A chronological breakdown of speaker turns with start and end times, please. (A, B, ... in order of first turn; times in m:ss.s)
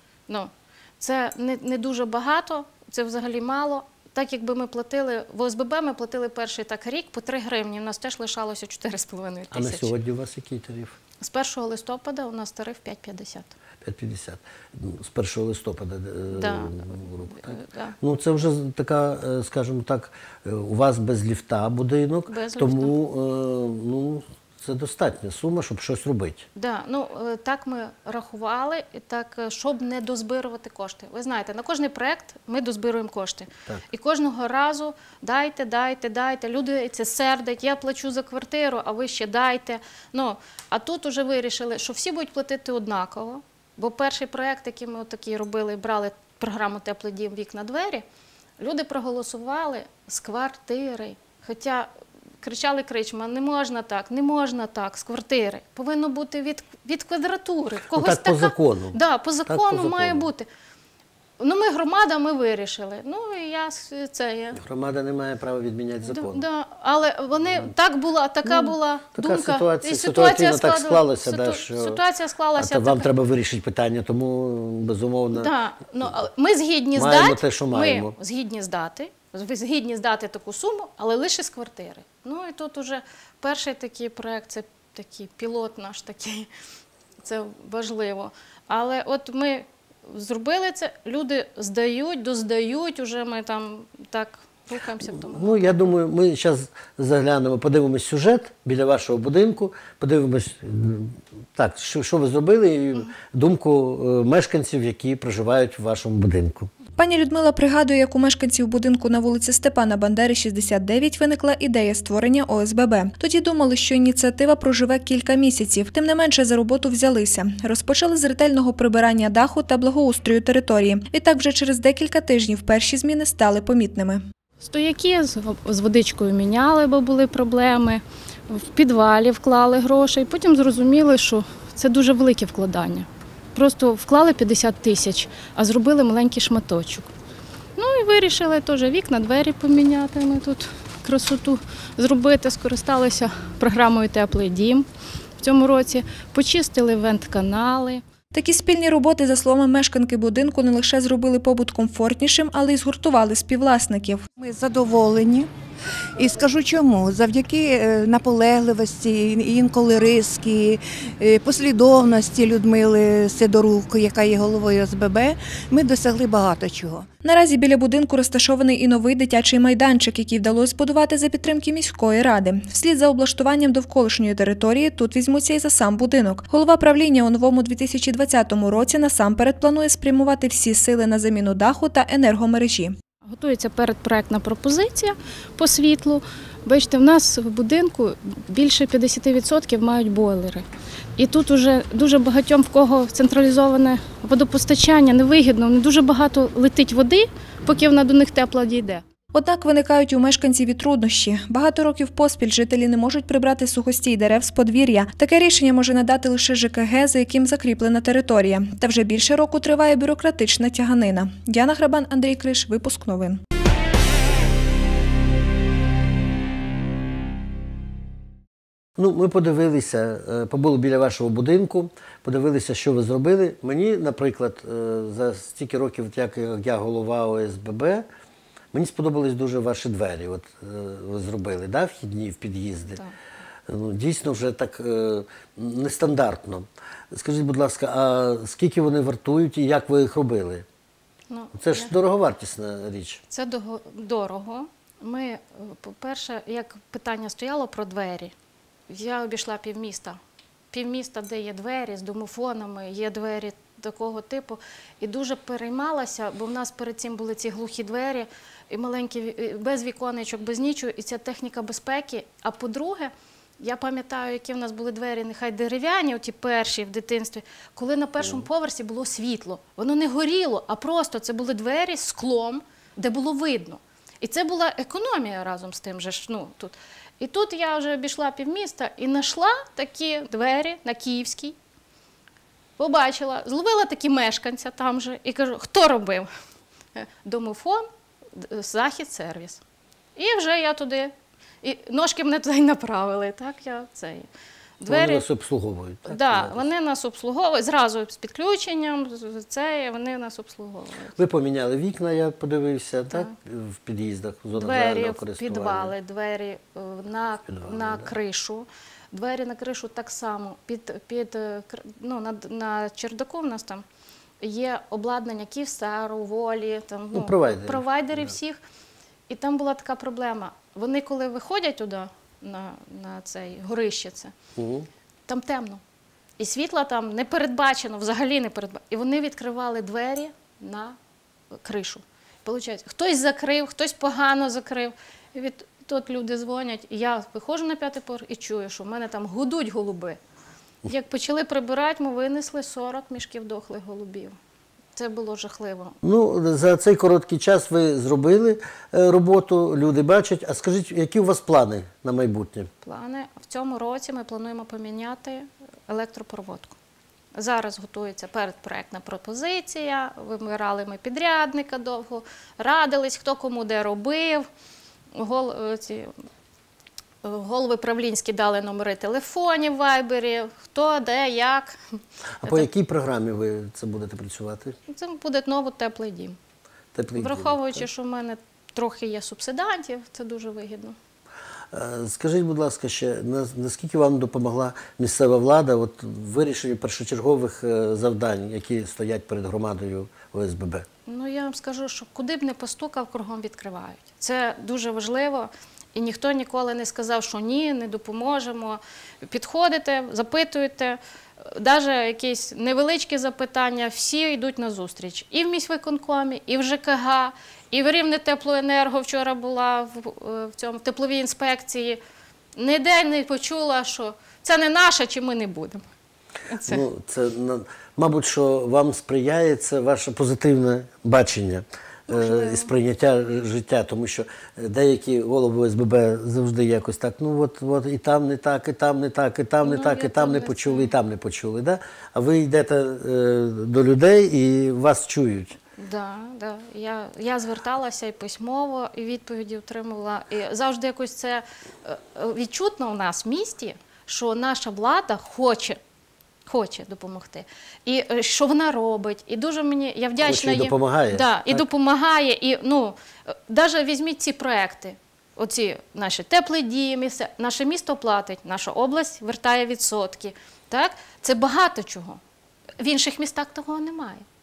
0:00.3-0:09.9 A
0:09.5-0:11.0 B
0:11.2-0:13.5 A
0:13.8-0:26.4 B
0:16.3-0:18.0 A
0:22.3-0:22.9 A
0:26.5-0:48.0 A
0:48.6-0:51.9 A
0:52.4-1:00.4 A
0:57.9-1:00.3 B
1:01.4-1:04.6 A
1:04.6-1:06.4 B
1:06.0-1:13.1 A
1:08.4-1:12.0 B
1:12.6-1:15.5 B
1:15.3-1:26.5 A
1:16.9-1:18.1 B
1:27.2-1:35.8 A
1:35.1-1:46.7 B
1:47.0-2:04.2 C
2:04.6-2:17.1 A
2:17.8-2:24.9 A
2:25.4-2:28.0 A
2:28.3-2:34.3 C
2:34.4-2:35.5 D
2:36.2-2:47.0 D
2:47.2-3:02.9 C
3:03.3-3:10.6 A
3:11.2-3:19.0 A
3:19.3-3:33.4 C
3:39.0-3:48.0 B
3:48.7-3:53.0 B
3:53.7-4:00.6 B
4:01.3-4:01.9 A
4:01.6-4:03.2 B
4:03.3-4:08.3 A
4:08.9-4:10.2 A
4:10.7-4:41.6 A
4:42.8-4:46.3 A
4:46.9-4:49.6 A
4:50.2-4:54.3 A
4:54.8-4:55.2 A
4:54.9-4:56.7 B
4:56.1-5:01.1 A
5:01.2-5:05.9 B
5:04.6-5:13.8 A
5:07.5-5:08.1 B
5:14.4-5:18.6 A
5:17.1-5:18.3 B
5:19.3-5:24.4 A
5:24.6-5:24.9 B
5:25.3-5:25.8 A
5:26.4-5:30.9 A
5:31.6-5:40.2 A
5:40.8-5:44.4 A
5:44.9-5:46.0 A
5:46.0-5:52.7 B
5:52.8-5:56.8 A
5:57.4-6:04.4 A
6:05.1-6:06.1 A
6:07.2-6:11.8 A
6:12.4-6:14.8 B
6:14.9-6:16.4 A
6:16.9-6:17.9 B
6:17.1-6:20.9 A
6:21.7-6:30.9 B
6:31.0-6:52.0 A
6:52.6-6:55.8 A
6:56.5-6:56.8 A
6:56.6-7:15.6 B
7:02.1-7:02.7 A
7:09.6-7:11.0 A
7:15.8-7:25.8 A
7:26.4-7:33.0 A
7:30.2-7:31.6 B
7:33.5-7:42.2 A
7:42.8-7:44.2 A